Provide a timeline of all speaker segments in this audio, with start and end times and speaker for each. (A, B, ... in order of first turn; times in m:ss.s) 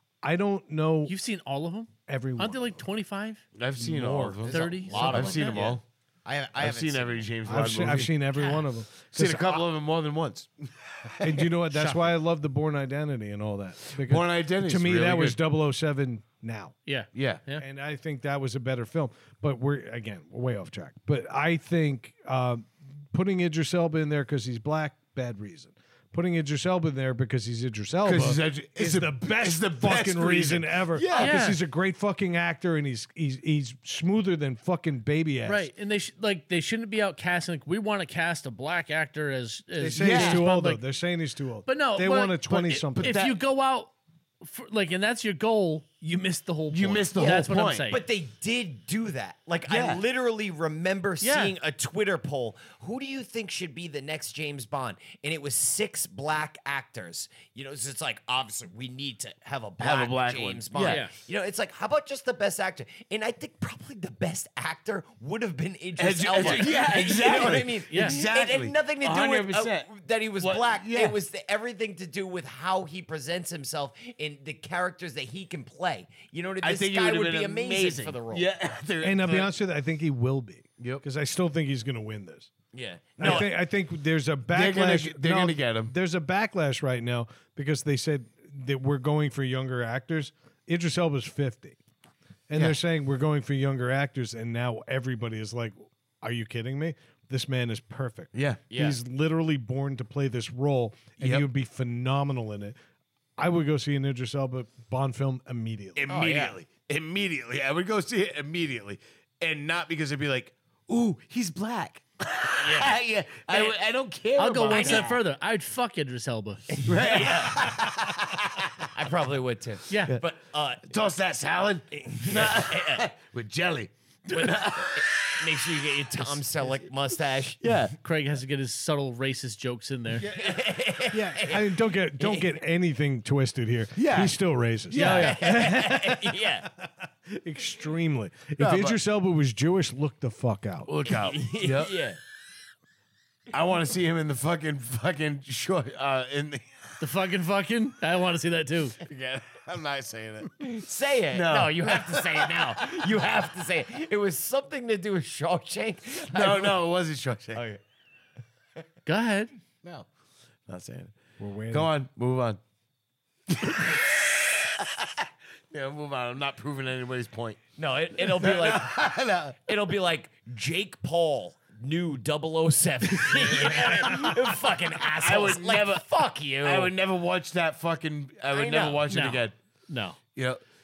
0:00.2-0:01.1 A
0:01.1-0:03.4 B
0:02.1-0:02.8 A
0:03.5-0:05.8 C
0:03.8-0:04.5 A
0:04.5-0:05.7 B
0:04.5-0:07.3 D
0:06.6-0:08.1 C
0:07.4-0:09.6 A
0:08.3-0:08.7 B
0:09.1-0:11.4 C
0:11.2-0:16.7 A
0:11.7-0:12.1 B
0:13.9-0:15.4 C
0:16.8-0:17.6 B
0:17.1-0:17.4 C
0:17.6-0:35.7 A
0:28.0-0:31.4 C
0:31.1-0:31.6 B
0:35.4-0:40.8 B
0:39.8-0:43.1 A
0:40.0-0:40.4 C
0:41.6-0:48.0 B
0:43.0-0:43.4 C
0:46.7-0:47.9 C
0:47.2-1:18.5 D
0:49.7-0:50.0 C
0:51.2-0:51.6 B
0:59.8-1:01.0 C
1:00.8-1:01.1 B
1:06.0-1:11.2 C
1:06.4-1:08.2 B
1:16.6-1:19.5 C
1:19.0-1:22.5 A
1:22.7-1:23.5 D
1:23.2-1:23.5 C
1:23.2-1:31.8 A
1:24.5-1:25.9 C
1:32.5-1:42.8 A
1:38.3-1:38.6 C
1:38.7-1:39.0 D
1:41.2-1:41.5 C
1:43.4-1:46.0 A
1:46.0-1:55.2 C
1:46.1-1:46.6 D
1:52.5-1:52.9 D
1:53.5-1:53.7 D
1:54.4-1:56.8 B
1:54.7-1:55.0 D
1:56.8-1:57.9 D
1:56.8-1:58.9 C
1:58.9-2:00.9 D
1:59.9-2:00.2 B
2:00.9-2:06.4 C
2:02.0-2:03.0 D
2:04.3-2:07.6 D
2:07.6-2:07.9 C
2:08.0-2:10.3 B
2:10.2-2:12.5 D
2:11.1-2:20.9 A
2:14.0-2:14.3 C
2:14.9-2:15.4 C
2:14.9-2:15.4 B
2:14.9-2:16.7 D
2:18.6-2:19.0 C
2:20.8-2:21.9 C
2:21.0-2:22.2 D
2:23.5-2:26.8 C
2:27.0-2:29.0 B
2:29.0-2:32.9 C
2:30.6-2:36.8 D
2:36.3-2:37.6 C
2:37.5-2:37.8 D
2:39.0-2:39.5 B
2:40.7-2:41.2 C
2:41.4-2:41.9 A
2:41.7-2:42.6 C
2:43.5-2:47.6 C
2:47.8-2:49.1 D
2:48.3-2:49.6 C
2:49.6-2:56.9 D
2:53.2-2:54.4 C
2:55.2-2:56.0 C
2:56.6-2:59.5 C
2:58.5-2:59.0 D
2:59.1-3:00.2 B
3:00.3-3:00.6 C